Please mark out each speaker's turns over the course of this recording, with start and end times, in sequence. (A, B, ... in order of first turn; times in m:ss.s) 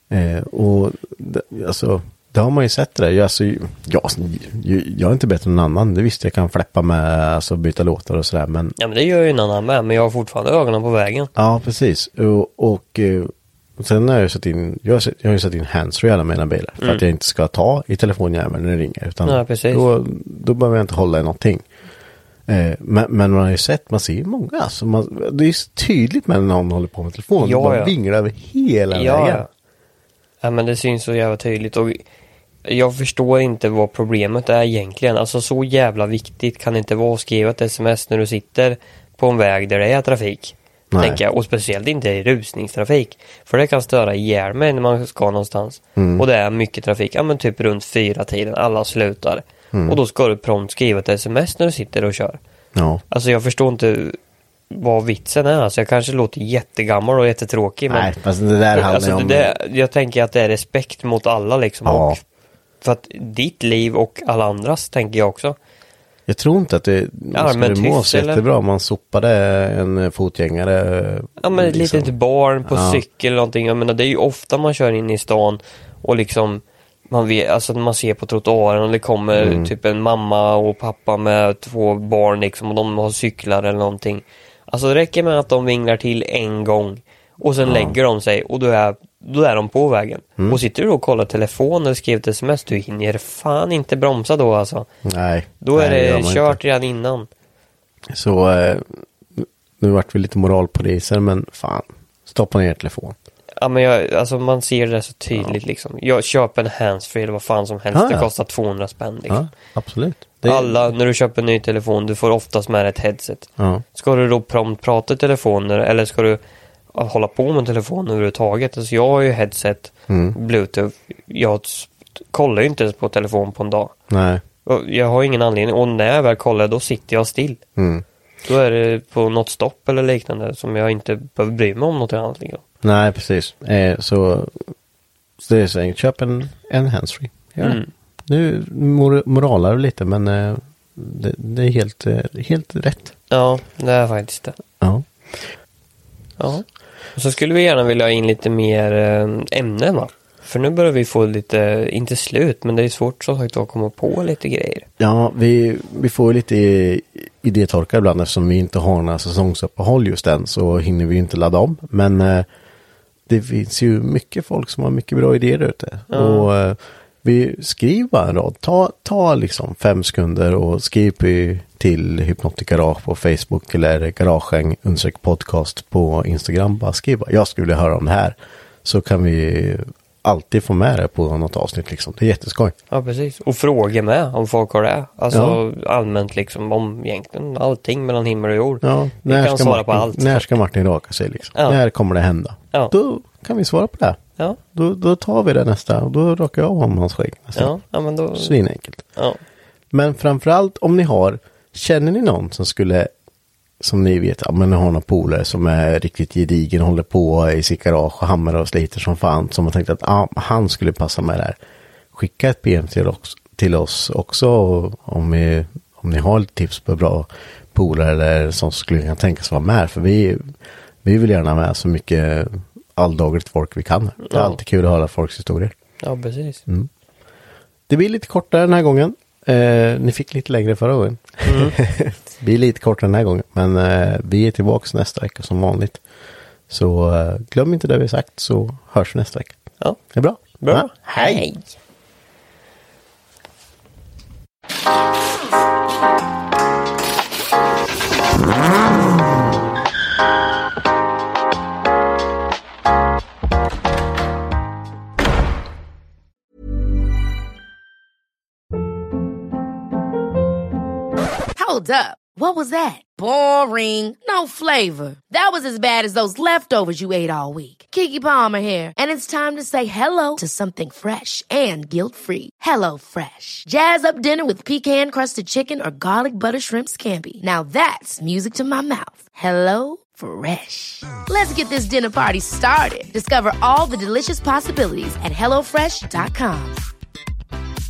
0:00.1-0:08.8 A
0:08.8-0:11.3 B
0:11.4-0:21.6 A
0:19.3-0:19.9 B
0:22.5-0:29.4 A
0:27.4-0:27.9 B
0:28.9-0:29.5 B
0:30.4-0:32.0 B
0:32.6-0:52.4 B
0:40.9-0:41.2 A
0:46.0-0:46.3 A
0:49.7-0:50.0 A
0:52.8-0:53.0 A
0:53.1-0:54.2 B
0:54.7-0:58.1 B
0:57.9-0:59.6 A
0:58.7-1:02.2 B
1:01.9-1:02.2 A
1:02.8-1:05.6 B
1:06.3-1:12.1 A
1:07.3-1:08.4 B
1:11.4-1:34.9 B
1:12.7-1:13.0 A
1:19.3-1:19.7 A
1:27.6-1:28.0 A
1:35.0-1:36.6 A
1:35.6-1:37.3 B
1:38.1-1:43.2 A
1:43.6-1:49.4 B
1:47.9-1:48.3 A
1:49.3-1:50.8 A
1:50.4-1:56.4 B
1:56.9-2:03.9 B
2:00.1-2:00.4 A
2:04.1-2:04.4 A
2:04.6-2:07.6 B
2:07.8-2:08.0 A
2:08.5-2:12.6 B
2:12.8-2:14.7 A
2:15.4-2:23.2 A
2:17.6-2:17.9 B
2:23.3-2:24.6 B
2:24.8-2:25.5 A
2:26.4-2:26.6 B
2:27.2-2:34.9 B
2:35.0-2:42.5 A
2:43.3-3:02.8 A
2:46.1-2:46.5 B
3:02.9-3:10.6 B
3:05.3-3:05.6 A
3:08.8-3:14.2 A
3:11.6-3:11.8 B
3:14.7-3:17.8 A
3:17.6-3:18.6 B
3:18.3-3:19.0 A
3:19.2-3:19.4 B
3:19.9-3:23.1 A
3:23.8-3:31.6 A
3:32.1-3:40.5 A
3:41.0-3:45.7 A
3:44.2-3:44.6 B
3:46.0-3:46.6 B
3:47.9-3:56.0 A
3:51.4-3:51.8 B
3:56.7-3:59.6 A
3:59.8-4:01.7 B
4:00.1-4:01.5 A
4:21.6-4:46.8 C